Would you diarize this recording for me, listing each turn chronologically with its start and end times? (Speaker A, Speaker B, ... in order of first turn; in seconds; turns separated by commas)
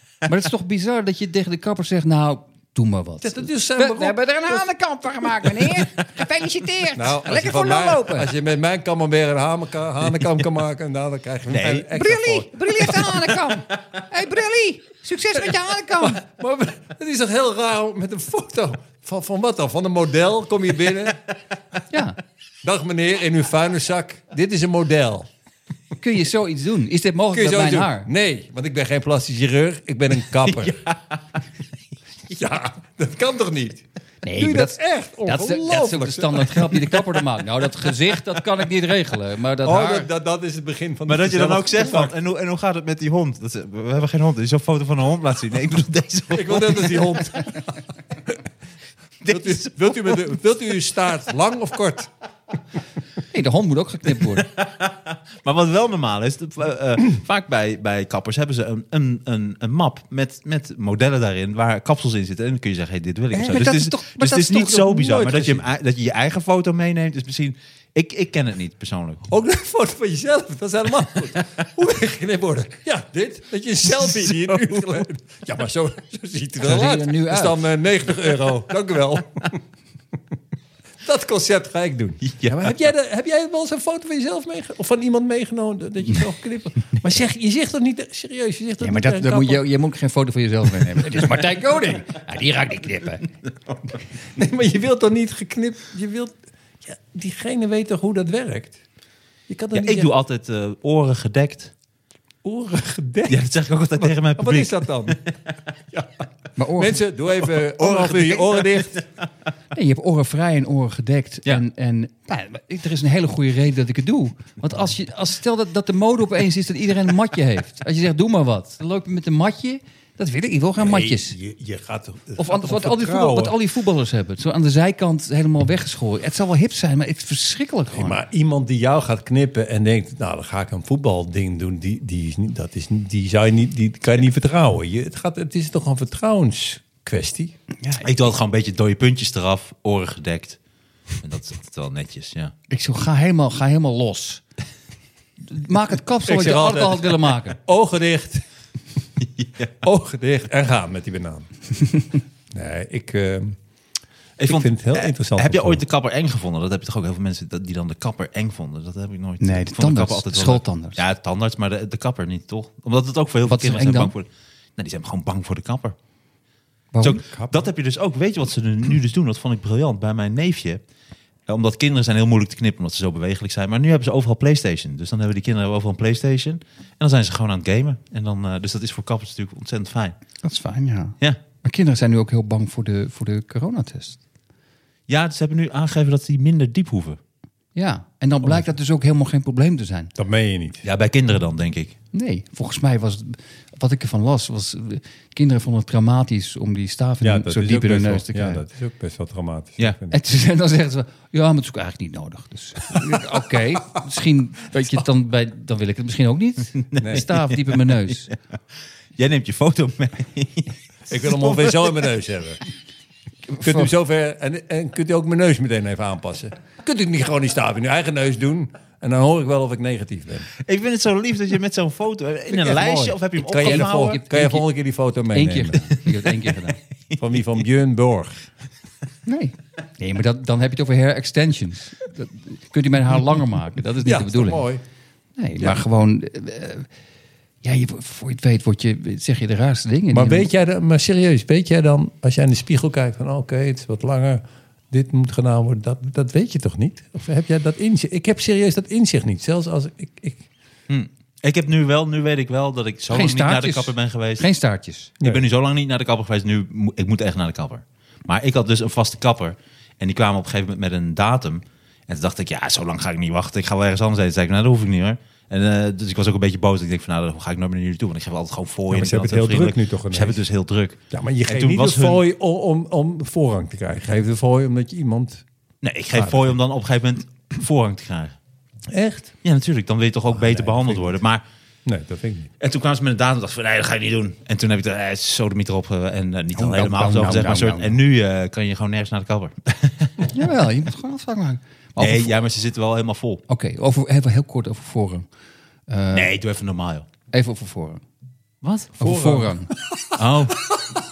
Speaker A: 0.3-8.3, Speaker B: 3.2-4.7, Speaker B: 5.3-5.8, Speaker B: 6.9-13.3, Speaker C: 11.5-11.9, Speaker A: 11.9-16.2, Speaker B: 16.0-21.2, Speaker A: 21.9-22.2, Speaker B: 22.6-25.3, Speaker A: 26.0-28.1, Speaker B: 27.3-30.8, Speaker C: 30.6-31.0, Speaker B: 32.3-33.8, Speaker A: 34.2-40.1, Speaker B: 34.3-37.0, Speaker B: 39.6-42.1, Speaker C: 41.1-47.2, Speaker B: 46.3-47.7, Speaker C: 49.2-50.2, Speaker B: 49.3-52.1, Speaker A: 53.3-54.5, Speaker C: 54.4-69.2, Speaker A: 63.3-65.2, Speaker B: 65.0-65.7, Speaker B: 69.3-79.6, Speaker C: 74.1-75.0, Speaker A: 76.6-77.6, Speaker B: 81.0-89.6, Speaker C: 82.2-82.6, Speaker A: 88.8-93.3, Speaker B: 94.3-98.8, Speaker B: 99.5-100.1, Speaker C: 99.7-101.7, Speaker B: 102.4-105.2, Speaker C: 103.3-105.2, Speaker B: 105.9-106.2, Speaker A: 106.6-107.0, Speaker B: 106.7-109.0, Speaker C: 107.5-109.1, Speaker A: 109.7-121.3, Speaker B: 120.8-123.5, Speaker A: 122.4-128.2, Speaker B: 127.9-137.5, Speaker A: 137.8-138.1, Speaker C: 138.0-140.6, Speaker C: 141.2-142.5, Speaker A: 142.7-144.4, Speaker A: 145.5-147.6, Speaker B: 146.2-148.4, Speaker C: 149.2-149.7, Speaker B: 149.8-151.5, Speaker B: 152.5-153.6, Speaker C: 154.4-165.9, Speaker B: 154.4-155.8, Speaker A: 159.4-161.0, Speaker A: 163.5-164.1, Speaker A: 166.9-167.5, Speaker C: 167.0-170.8, Speaker C: 171.5-180.2, Speaker A: 180.4-184.2, Speaker C: 185.1-187.2, Speaker A: 187.7-190.1, Speaker B: 190.2-190.8, Speaker C: 190.8-191.9, Speaker A: 192.1-198.6, Speaker B: 197.2-200.2, Speaker A: 200.1-208.3, Speaker C: 206.9-207.4, Speaker B: 207.0-207.3, Speaker C: 209.2-212.0, Speaker B: 211.1-212.6, Speaker A: 213.5-213.9, Speaker B: 213.6-220.5, Speaker C: 220.6-224.2, Speaker B: 222.6-225.8, Speaker A: 222.6-224.6, Speaker A: 225.3-226.8, Speaker B: 227.2-228.5, Speaker A: 229.2-234.6, Speaker B: 234.0-234.8, Speaker A: 235.4-236.9, Speaker A: 237.6-240.5, Speaker B: 240.1-250.4, Speaker C: 250.9-254.4, Speaker A: 253.1-255.1, Speaker C: 255.2-272.2, Speaker B: 268.9-270.4, Speaker B: 271.1-275.4, Speaker C: 275.8-278.4, Speaker B: 276.1-276.6, Speaker B: 278.9-279.3, Speaker C: 279.4-281.4, Speaker B: 280.3-281.2, Speaker B: 281.9-282.5, Speaker C: 282.6-290.2, Speaker A: 286.5-288.0, Speaker A: 290.3-292.3, Speaker C: 292.0-293.4, Speaker A: 293.5-295.3, Speaker A: 295.9-296.3, Speaker C: 296.1-297.1, Speaker A: 297.3-298.0, Speaker C: 298.6-298.9, Speaker B: 299.0-301.0, Speaker A: 299.0-299.7, Speaker C: 300.1-300.8